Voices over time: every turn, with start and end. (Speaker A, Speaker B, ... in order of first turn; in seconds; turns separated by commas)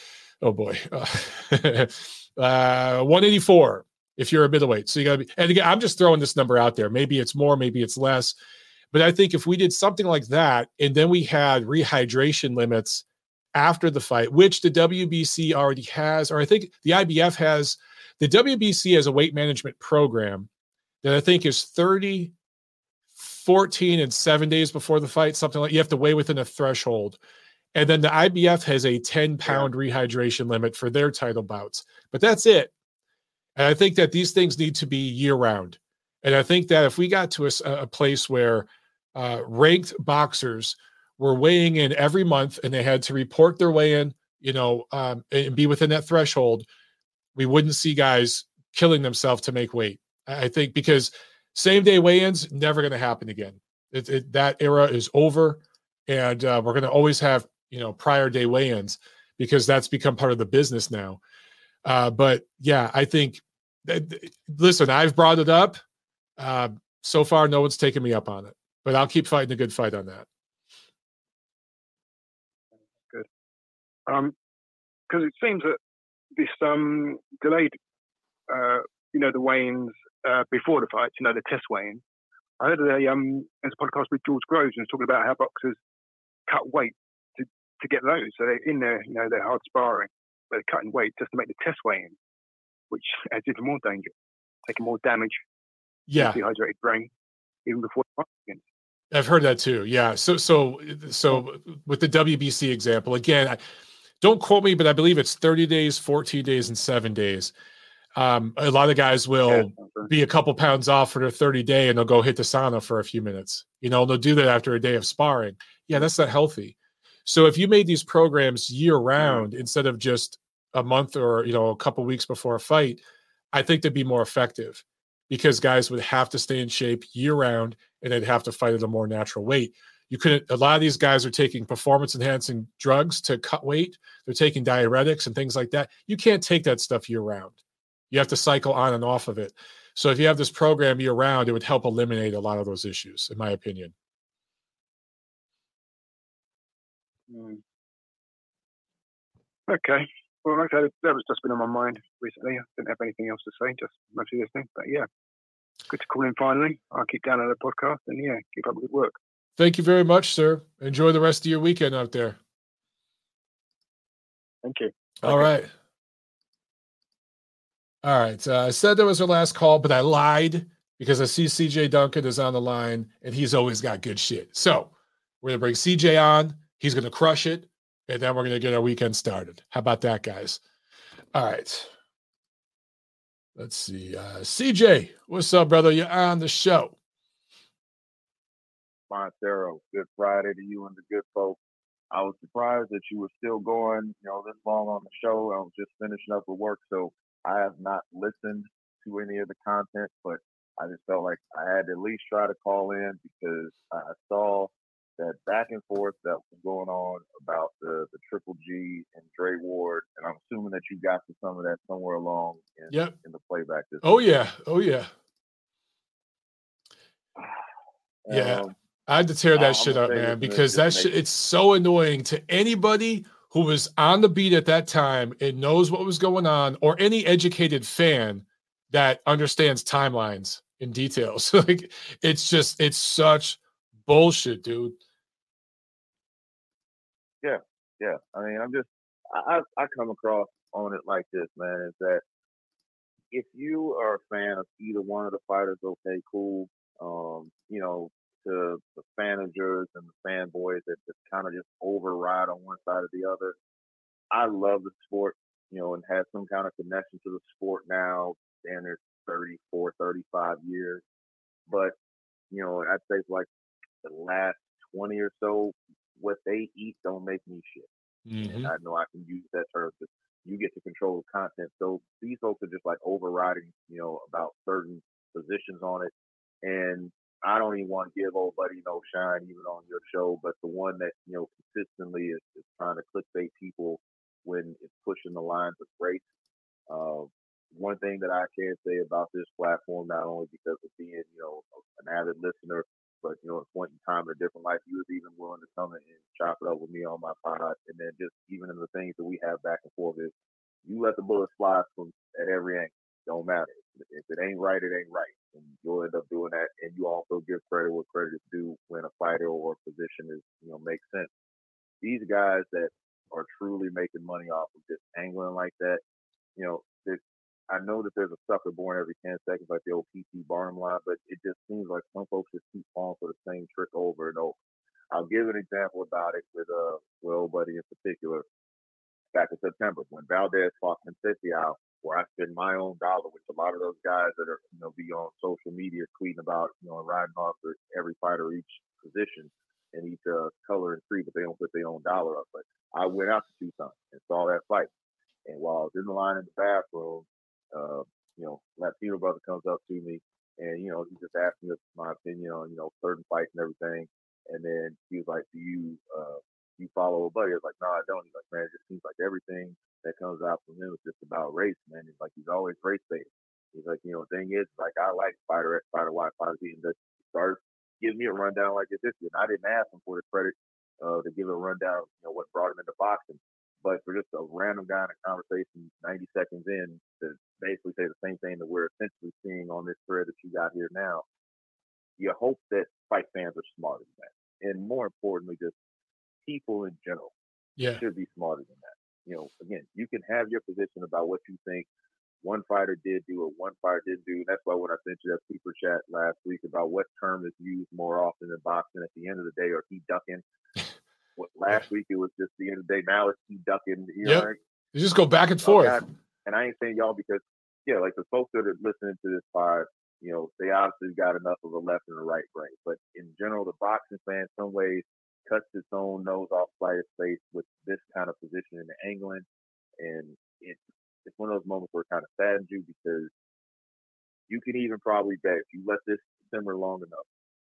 Speaker A: 0.4-8.3, Speaker A: 8.9-13.0, Speaker A: 13.6-20.5, Speaker A: 21.0-22.3, Speaker A: 23.2-27.2, Speaker A: 27.8-32.7, Speaker A: 33.6-46.7, Speaker A: 47.4-61.2, Speaker A: 61.9-65.8, Speaker A: 66.4-70.3, Speaker B: 74.1-74.3, Speaker B: 75.1-75.8, Speaker B: 76.4-77.8, Speaker B: 78.5-82.0, Speaker B: 82.6-85.8, Speaker B: 86.5-92.2, Speaker B: 92.9-94.1, Speaker B: 94.7-95.4, Speaker A: 96.1-96.4, Speaker B: 96.2-97.1, Speaker B: 97.7-98.6, Speaker A: 99.1-103.6, Speaker A: 104.2-107.5, Speaker A: 108.2-116.8, Speaker B: 109.5-110.1, Speaker A: 117.3-137.6, Speaker A: 138.1-143.9, Speaker B: 147.3-147.6, Speaker B: 149.7-155.1, Speaker B: 155.9-159.2, Speaker A: 159.6-162.4, Speaker B: 164.6-165.5, Speaker A: 165.2-165.7, Speaker A: 168.0-174.9, Speaker A: 175.4-180.6, Speaker A: 181.3-181.9, Speaker A: 183.6-186.9, Speaker C: 189.1-191.6, Speaker C: 192.1-214.1, Speaker A: 212.9-213.2, Speaker A: 214.0-215.1, Speaker C: 218.3-218.8, Speaker A: 218.3-235.0, Speaker C: 219.6-221.1, Speaker C: 237.4-242.2, Speaker C: 243.3-253.6, Speaker C: 254.3-261.0, Speaker C: 261.7-261.9, Speaker C: 262.5-263.5, Speaker C: 264.0-267.9, Speaker A: 268.3-268.7, Speaker C: 268.5-276.1, Speaker C: 276.6-286.2, Speaker C: 286.9-300.3, Speaker C: 300.9-311.3, Speaker C: 312.0-316.0, Speaker C: 316.6-324.6, Speaker C: 325.1-328.4, Speaker C: 329.3-344.9, Speaker C: 345.5-381.2, Speaker C: 382.2-385.8, Speaker C: 386.4-387.3, Speaker A: 387.8-388.0, Speaker C: 388.0-391.9, Speaker C: 392.4-400.4, Speaker C: 401.4-404.6, Speaker A: 404.2-406.0, Speaker C: 405.6-419.5, Speaker C: 420.0-423.3, Speaker C: 424.5-427.2